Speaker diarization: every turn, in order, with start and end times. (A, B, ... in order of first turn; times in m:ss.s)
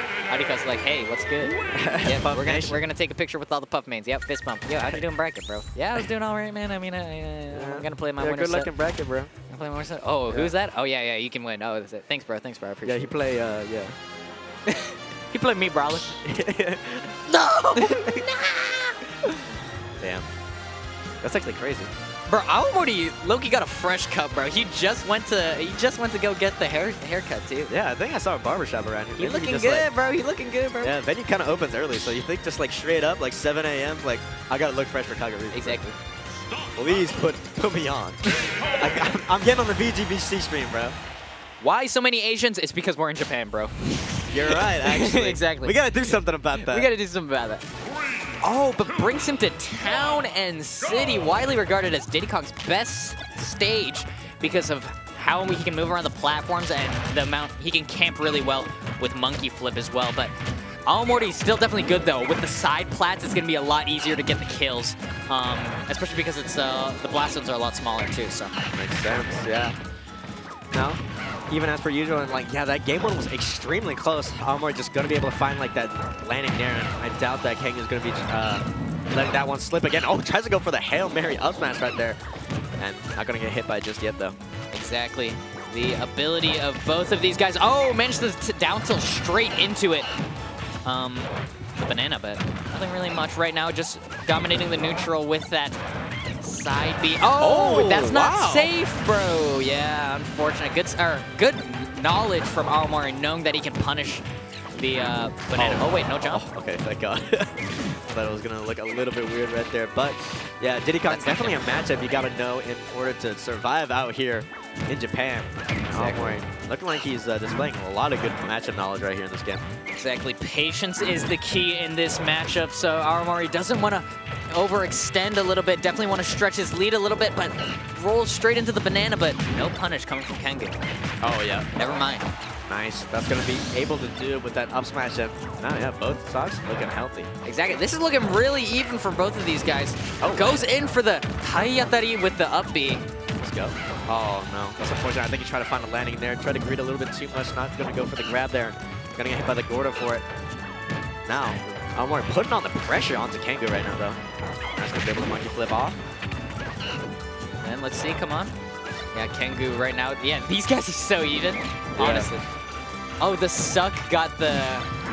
0:00.3-0:08.7 A
0:01.7-0:02.8 B
0:07.5-0:09.3 B
0:09.5-0:13.1 A
0:10.3-0:10.5 B
0:12.8-0:14.0 B
0:14.6-0:16.2 A
0:16.2-0:18.2 B
0:17.3-0:19.0 A
0:20.0-0:20.3 B
0:21.2-0:21.9 B
0:22.3-0:27.7 A
0:27.7-0:29.9 B
0:29.2-0:31.0 A
0:30.8-0:35.8 B
0:35.5-0:35.9 A
0:36.7-0:41.0 B
0:41.6-0:47.6 A
0:44.3-0:46.9 B
0:48.4-1:00.3 A
1:00.8-1:08.6 A
1:08.7-1:09.8 B
1:10.7-1:22.2 B
1:22.8-1:24.4 B
1:24.7-1:30.1 A
1:30.8-1:35.8 A
1:36.4-1:44.2 A
1:37.4-1:38.7 B
1:44.8-1:46.4 A
1:45.6-1:59.6 B
1:51.1-1:51.8 A
1:55.9-1:56.4 A
1:59.9-2:10.8 A
2:11.2-2:11.7 B
2:11.8-2:12.3 A
2:12.7-2:17.3 B
2:17.4-2:23.0 A
2:20.2-2:20.6 B
2:23.4-2:30.2 B
2:31.2-2:34.2 B
2:34.7-2:36.0 B
2:37.6-2:38.5 A
2:39.1-2:42.5 A
2:42.0-2:42.3 B
2:43.2-2:44.9 A